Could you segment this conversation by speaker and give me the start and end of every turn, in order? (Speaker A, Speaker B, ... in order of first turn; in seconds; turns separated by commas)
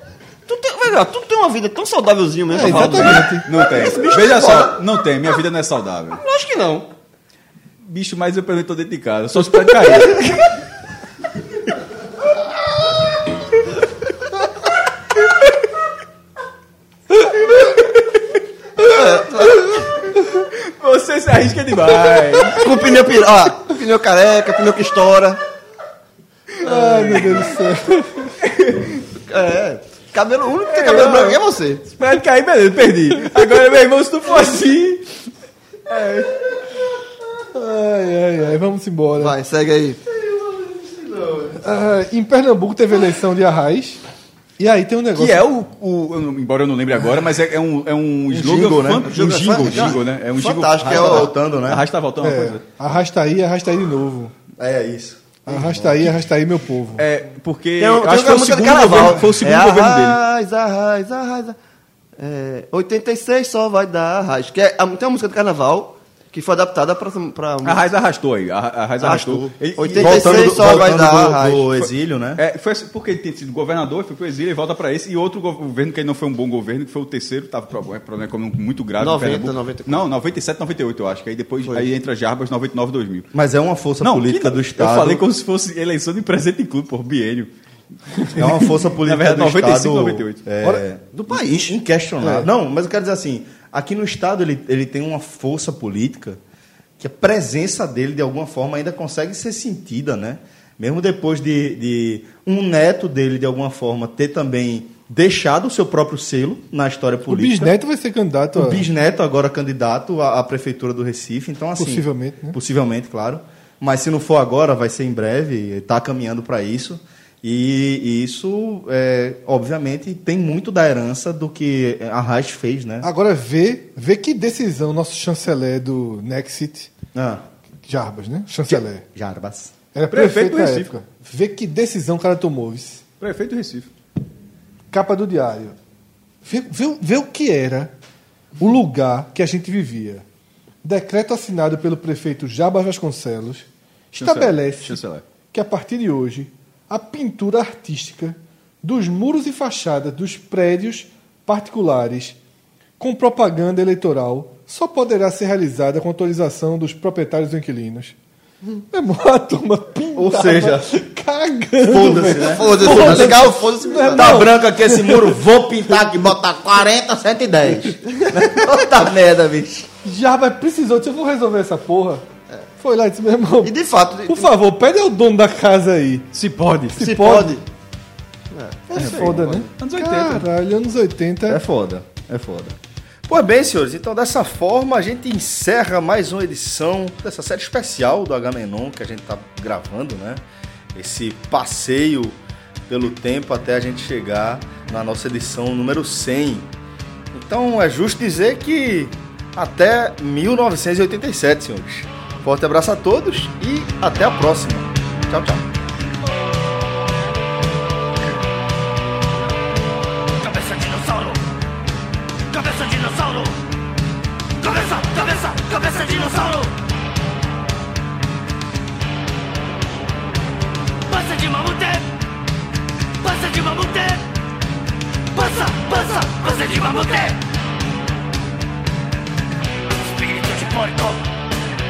Speaker A: 0.5-4.8, Speaker B: 2.5-3.5, Speaker C: 2.5-6.2, Speaker A: 6.1-6.9, Speaker C: 7.8-10.4, Speaker A: 18.8-19.8, Speaker C: 20.3-22.7, Speaker A: 22.5-25.4, Speaker A: 26.6-27.4, Speaker B: 26.6-28.3, Speaker C: 28.4-29.0, Speaker A: 29.2-31.8, Speaker C: 30.6-35.1, Speaker C: 35.9-36.3, Speaker B: 37.5-39.4, Speaker A: 39.2-40.0, Speaker D: 40.1-41.6, Speaker B: 41.6-44.0, Speaker B: 44.6-45.4, Speaker C: 45.1-52.6, Speaker D: 48.3-49.1, Speaker A: 49.1-51.3, Speaker D: 50.8-51.9, Speaker B: 52.2-54.3, Speaker D: 54.6-56.1, Speaker B: 55.5-57.0, Speaker C: 57.0-60.2, Speaker A: 57.8-61.6, Speaker A: 62.2-67.8, Speaker C: 67.6-70.8, Speaker A: 69.0-71.6, Speaker D: 69.9-72.4, Speaker C: 71.8-83.3, Speaker A: 79.0-80.0, Speaker D: 83.3-85.2, Speaker C: 84.0-87.5, Speaker C: 88.2-90.4, Speaker D: 88.3-96.4, Speaker A: 91.1-92.5, Speaker D: 97.0-107.7, Speaker B: 107.3-108.9, Speaker D: 108.5-123.1, Speaker B: 111.8-112.6, Speaker B: 123.0-126.9, Speaker D: 127.1-127.4, Speaker B: 127.8-129.0, Speaker D: 129.1-129.7, Speaker B: 129.9-133.0, Speaker C: 130.1-130.9, Speaker C: 133.2-133.9, Speaker B: 134.9-135.8, Speaker B: 136.4-137.9, Speaker B: 138.6-140.2, Speaker B: 140.8-145.0, Speaker C: 144.1-145.2, Speaker B: 145.5-152.4, Speaker B: 153.0-158.2, Speaker B: 158.9-165.3, Speaker D: 160.1-161.0, Speaker D: 161.8-163.4, Speaker A: 162.3-164.5, Speaker D: 164.1-169.9, Speaker B: 170.0-172.2, Speaker B: 172.8-173.7, Speaker A: 173.6-174.5, Speaker B: 174.3-176.3, Speaker C: 176.3-177.1, Speaker B: 176.9-177.6, Speaker A: 177.0-177.6, Speaker A: 178.5-179.6, Speaker B: 178.9-181.6, Speaker C: 178.9-180.4, Speaker D: 179.0-179.4, Speaker D: 181.5-190.4, Speaker D: 190.9-192.4, Speaker D: 192.9-196.7, Speaker D: 197.3-205.7, Speaker E: 210.4-211.4, Speaker E: 212.5-213.6, Speaker E: 214.6-216.7, Speaker E: 221.1-222.1, Speaker E: 223.2-224.2, Speaker E: 225.3-227.4, Speaker E: 229.9-231.2